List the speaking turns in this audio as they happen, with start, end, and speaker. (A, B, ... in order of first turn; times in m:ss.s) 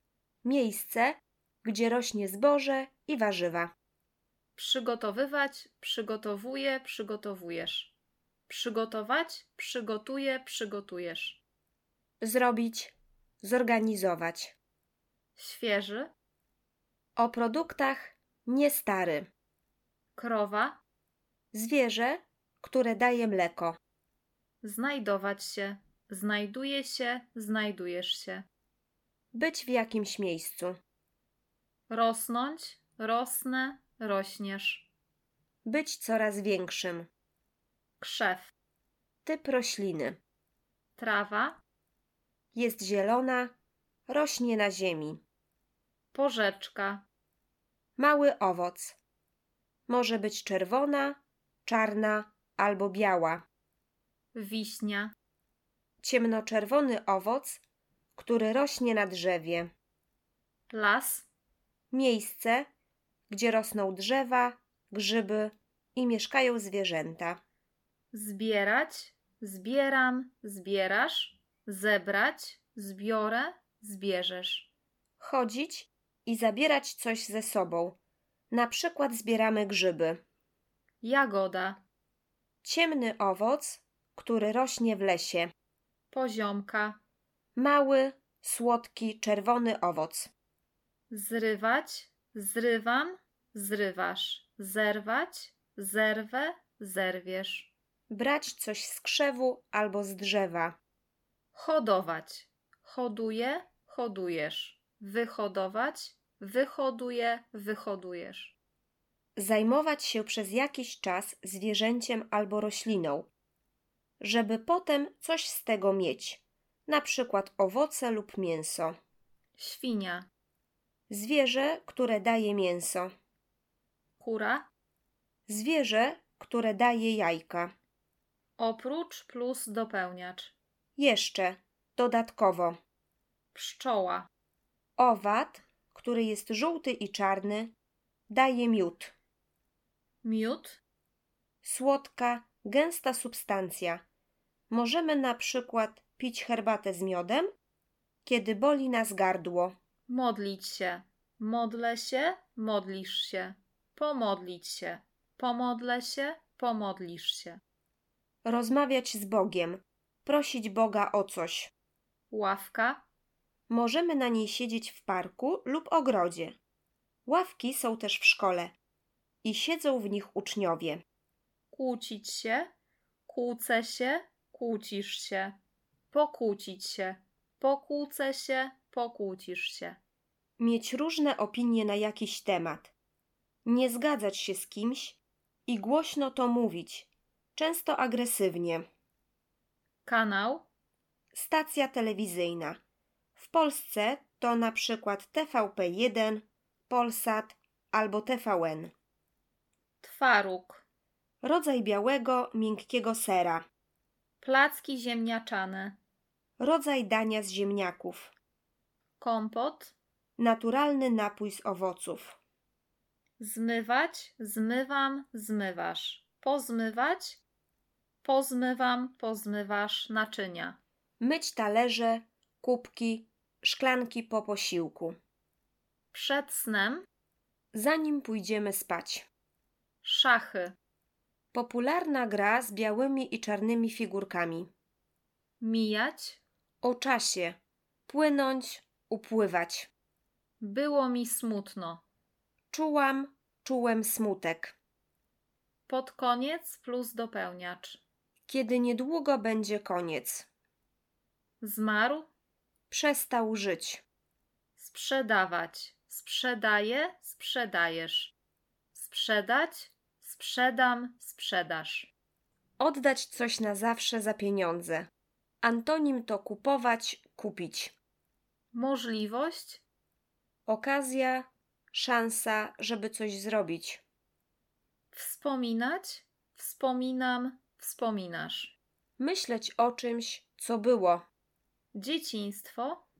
0:00.4-0:03.7 A
0:04.6-0:07.9 B
0:08.5-0:11.4 B
0:12.2-0:14.5 A
0:15.4-0:16.1 B
0:17.2-0:19.3 A
0:20.2-0:20.8 B
0:21.5-0:23.8 A
0:24.6-0:28.4 B
0:29.3-0:30.8 A
0:31.9-0:34.9 B
0:35.6-0:37.1 A
0:38.0-0:38.5 B
0:39.2-0:40.2 A
0:41.0-0:41.6 B
0:42.5-0:43.5 A
0:44.1-0:45.2 A
0:46.1-0:47.0 B
0:48.0-0:49.0 A
0:49.9-0:53.4 A
0:54.3-0:55.1 B
0:56.0-0:57.6 A
0:58.2-0:59.7 A
1:00.7-1:01.3 B
1:01.9-1:02.7 A
1:03.3-1:07.4 A
1:08.1-1:14.7 B
1:15.2-1:18.0 A
1:18.5-1:20.2 A
1:21.0-1:21.8 B
1:22.6-1:25.5 A
1:26.1-1:27.0 B
1:27.6-1:30.3 A
1:31.1-1:37.7 B
1:38.1-1:40.8 A
1:41.5-1:48.5 B
1:49.4-1:53.3 A
1:54.2-1:58.9 A
1:59.6-2:00.3 B
2:01.1-2:03.1 A
2:04.2-2:04.7 B
2:05.5-2:07.7 A
2:08.6-2:10.5 B
2:11.0-2:12.8 A
2:13.5-2:14.3 B
2:15.0-2:17.7 A
2:18.3-2:19.1 A
2:20.2-2:20.8 B
2:21.6-2:24.0 A
2:24.7-2:27.5 A
2:28.2-2:29.7 A
2:30.1-2:37.6 B
2:38.4-2:41.7 A
2:42.3-2:43.0 B
2:43.7-2:46.6 A
2:47.3-2:48.7 A
2:49.4-2:51.0 A
2:51.7-2:52.7 B
2:53.2-2:55.6 B
2:56.1-3:00.0 B
3:00.6-3:02.9 A
3:03.6-3:08.8 A
3:10.0-3:10.7 B
3:11.3-3:12.8 A
3:13.4-3:18.9 A
3:20.0-3:20.8 B
3:21.4-3:23.6 A
3:24.4-3:26.0 B
3:26.6-3:28.3 A
3:29.2-3:29.9 B
3:30.4-3:32.4 A
3:33.4-3:37.4 B
3:38.2-3:40.8 B
3:41.2-3:45.2 A
3:46.1-3:47.0 B
3:47.7-3:49.3 A
3:50.0-3:50.8 B
3:51.5-3:54.7 A
3:55.6-3:56.4 B
3:56.8-3:59.9 A
4:00.6-4:02.0 B
4:02.7-4:04.8 A
4:05.9-4:08.0 B
4:08.5-4:10.5 A
4:11.6-4:12.3 B
4:12.9-4:14.0 A
4:14.8-4:18.3 B
4:18.9-4:22.1 B
4:22.8-4:25.1 A
4:25.6-4:28.0 A
4:28.7-4:29.8 B
4:30.7-4:34.0 A
4:35.1-4:38.7 B
4:39.2-4:41.3 A
4:41.9-4:43.0 B